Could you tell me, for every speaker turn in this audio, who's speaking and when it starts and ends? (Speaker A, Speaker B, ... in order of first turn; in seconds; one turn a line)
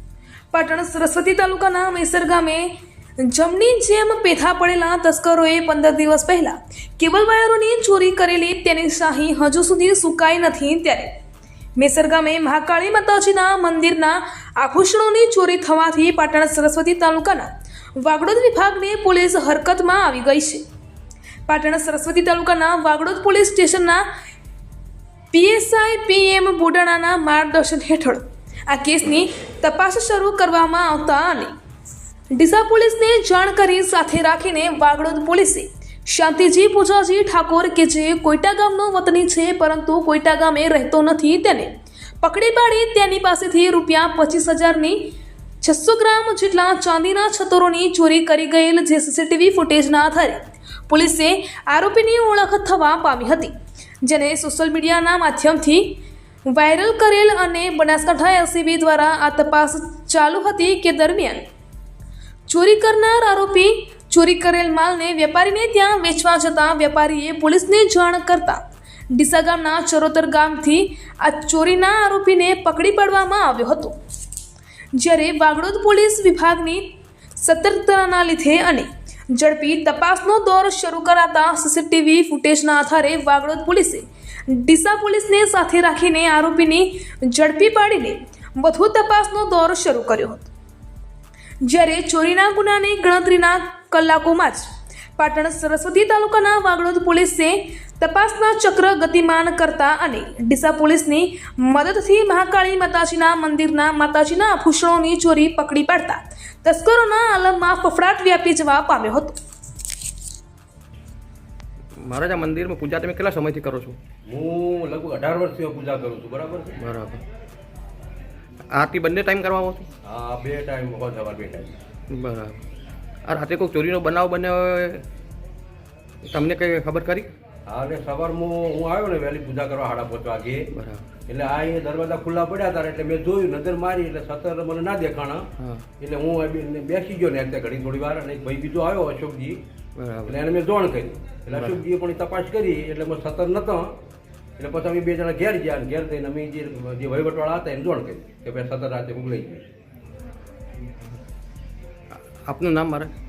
Speaker A: 0.5-2.7
Speaker A: 3.2-11.1
Speaker A: 11.8-20.6
Speaker A: 21.5-24.0
Speaker A: 25.3-31.5
Speaker A: 32.3-41.7
Speaker A: 42.2-45.0
Speaker A: 45.6-56.0
Speaker A: 56.5-61.5
Speaker A: 62.5-68.6
Speaker A: 69.1-74.0
Speaker A: 75.0-90.5
Speaker A: 91.6-94.7
Speaker A: 95.2-109.4
Speaker B: 112.0-114.0
Speaker C: 114.3-116.8
Speaker B: 116.8-117.2
Speaker B: 118.7-119.9
Speaker C: 120.0-121.8
Speaker B: 122.1-122.6
Speaker B: 123.3-125.0
Speaker B: 126.2-127.3
Speaker C: 127.7-130.7
Speaker B: 130.7-131.1
Speaker C: 131.3-135.5
Speaker B: 135.6-135.8
Speaker C: 136.0-139.6
Speaker B: 140.0-140.3
Speaker C: 140.3-143.9
Speaker B: 141.5-141.8
Speaker C: 144.6-149.6
Speaker B: 152.4-153.1